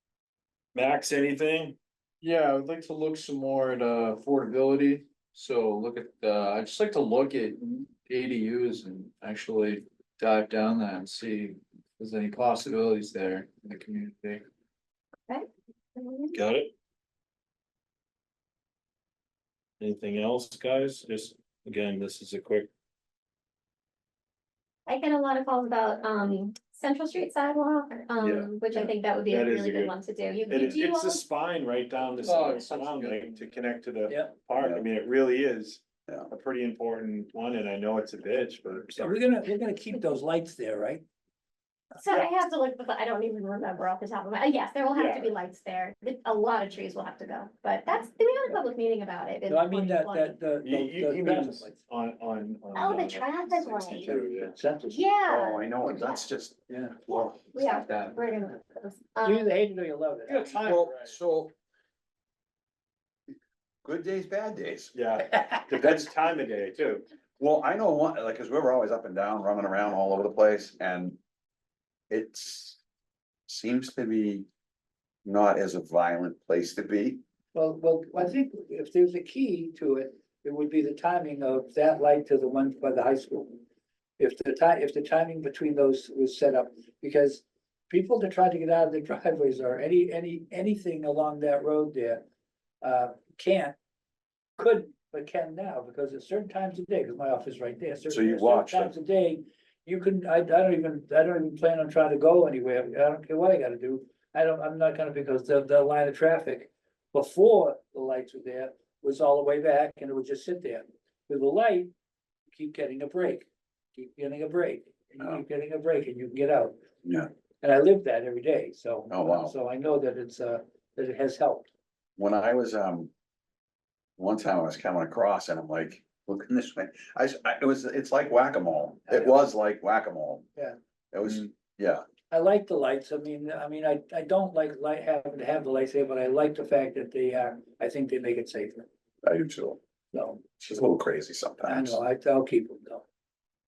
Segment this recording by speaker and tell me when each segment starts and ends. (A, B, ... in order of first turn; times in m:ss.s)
0:00.8-0:01.8 A
0:02.2-0:14.4 B
0:15.3-0:16.4 C
0:16.3-0:16.7 A
0:19.8-0:22.7 A
0:24.9-0:31.2 C
0:28.2-0:28.5 D
0:29.3-0:39.2 A
0:32.2-0:33.4 B
0:34.1-0:34.3 E
0:34.5-0:34.8 D
0:39.0-0:41.0 E
0:42.0-0:50.3 C
0:44.9-0:45.4 A
0:49.5-0:51.8 E
0:50.6-0:54.5 A
0:52.7-0:54.2 C
0:54.0-0:55.0 E
0:54.9-0:56.2 C
0:55.3-0:57.3 D
0:56.7-0:57.0 E
0:57.3-0:59.5 C
0:59.2-1:00.6 E
1:00.3-1:01.2 A
1:00.6-1:01.5 D
1:03.8-1:04.9 D
1:04.9-1:07.0 A
1:07.4-1:11.2 D
1:12.1-1:12.8 D
1:13.5-1:14.5 D
1:15.2-1:17.2 D
1:17.5-1:23.6 E
1:24.2-1:32.2 E
1:32.8-1:33.8 E
1:34.6-1:51.9 E
1:38.1-1:38.9 D
1:52.5-1:56.8 E
1:57.0-1:57.3 D
1:57.6-2:01.7 E
1:59.1-1:59.5 D
2:02.2-2:03.1 D
2:04.2-2:10.5 D
2:09.1-2:09.4 E
2:11.1-2:12.0 D
2:12.3-2:18.9 E
2:19.2-2:19.8 D
2:20.1-2:20.4 E
2:20.6-2:22.0 D
2:21.7-2:23.0 E